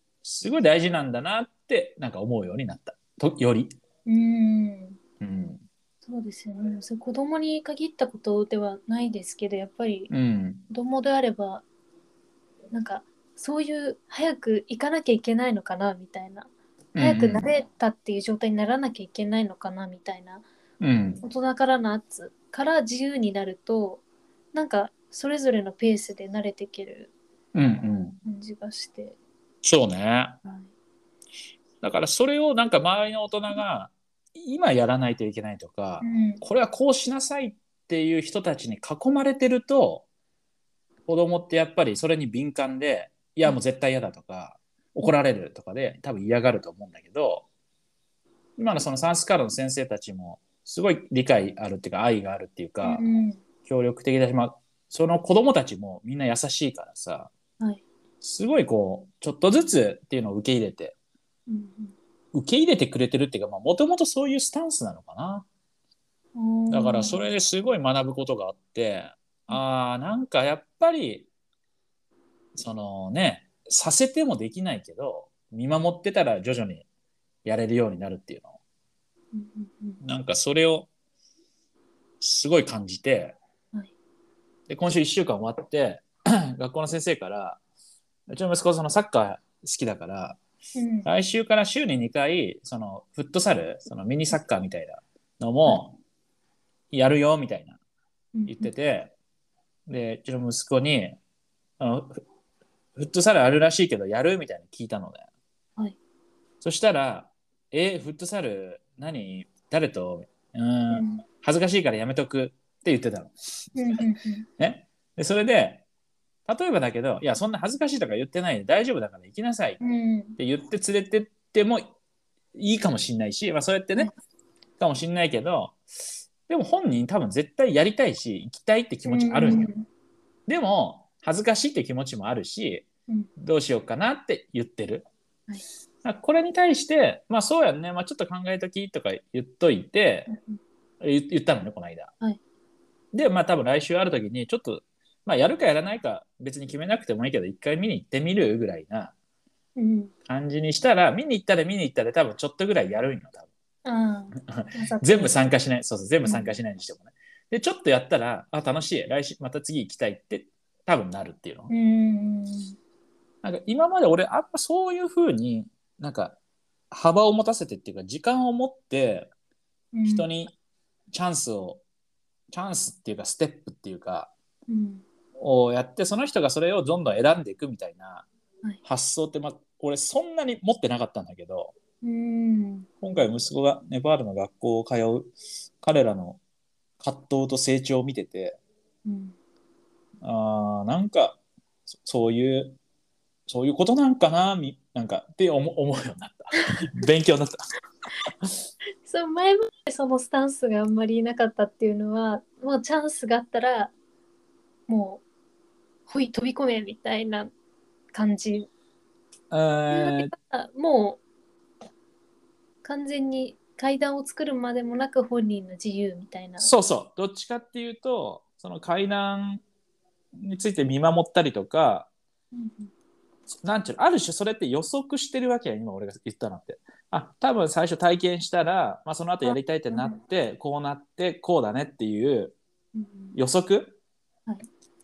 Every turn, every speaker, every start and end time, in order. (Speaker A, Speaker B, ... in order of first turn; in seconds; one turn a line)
Speaker A: 0.2-3.7
Speaker B: 4.0-5.0
Speaker A: 5.2-5.6
Speaker B: 6.0-10.1
Speaker A: 10.1-10.6
Speaker B: 10.7-11.6
Speaker B: 12.7-20.4
Speaker A: 16.9-17.5
Speaker A: 20.8-21.2
Speaker B: 21.2-24.0
Speaker B: 24.5-27.1
Speaker A: 27.5-28.2
Speaker B: 28.2-29.2
Speaker A: 29.6-30.4
Speaker B: 30.4-30.7
Speaker A: 31.8-40.0
Speaker B: 36.0-36.4
Speaker A: 41.1-47.5
Speaker A: 48.6-53.0
Speaker B: 52.8-53.4
Speaker A: 53.6-57.3
Speaker A: 58.2-60.9
Speaker B: 61.5-61.9
Speaker A: 62.3-65.5
Speaker B: 66.3-67.2
Speaker A: 66.7-71.3
Speaker A: 72.5-76.8
Speaker A: 77.4-78.6
Speaker B: 79.3-80.0
Speaker A: 80.0-80.9
Speaker A: 82.2-83.4
Speaker A: 84.7-87.6
Speaker A: 88.3-90.4
Speaker B: 90.7-91.1
Speaker A: 91.0-96.0
Speaker A: 96.9-97.8
Speaker B: 98.3-98.7
Speaker A: 98.5-99.1
Speaker A: 99.9-101.2
Speaker A: 101.8-102.2
Speaker A: 103.0-105.3
Speaker A: 106.6-113.3
Speaker B: 110.9-111.2
Speaker B: 113.8-114.5
Speaker A: 114.6-115.8
Speaker A: 116.5-119.8
Speaker B: 119.8-120.4
Speaker A: 120.4-121.8
Speaker A: 122.5-124.1
Speaker A: 124.8-125.8
Speaker A: 126.5-129.7
Speaker B: 129.0-129.8
Speaker A: 130.5-132.8
Speaker A: 133.4-135.1
Speaker A: 136.0-140.3
Speaker B: 140.3-140.6
Speaker A: 141.0-142.1
Speaker A: 143.1-149.1
Speaker B: 149.8-150.1
Speaker A: 150.3-153.5
Speaker B: 153.8-155.3
Speaker A: 154.5-161.7
Speaker B: 156.2-156.6
Speaker B: 161.7-162.8
Speaker A: 163.4-166.4
Speaker A: 166.9-169.3
Speaker B: 169.9-170.3
Speaker A: 170.1-170.5
Speaker A: 171.1-171.8
Speaker A: 172.5-174.3
Speaker B: 174.7-175.0
Speaker A: 175.4-178.3
Speaker A: 178.8-181.7
Speaker B: 182.0-182.9
Speaker A: 183.0-186.4
Speaker A: 187.0-188.6
Speaker B: 189.1-189.3
Speaker A: 190.2-191.4
Speaker A: 191.9-192.8
Speaker A: 193.5-197.6
Speaker B: 199.0-203.9
Speaker B: 204.9-205.2
Speaker B: 206.1-207.5
Speaker B: 208.1-208.7
Speaker A: 209.5-210.3
Speaker B: 209.9-211.2
Speaker B: 212.8-216.7
Speaker A: 216.6-219.6
Speaker A: 220.4-222.1
Speaker B: 222.5-222.9
Speaker A: 223.6-232.6
Speaker B: 229.4-230.2
Speaker B: 232.9-233.4
Speaker A: 233.3-234.0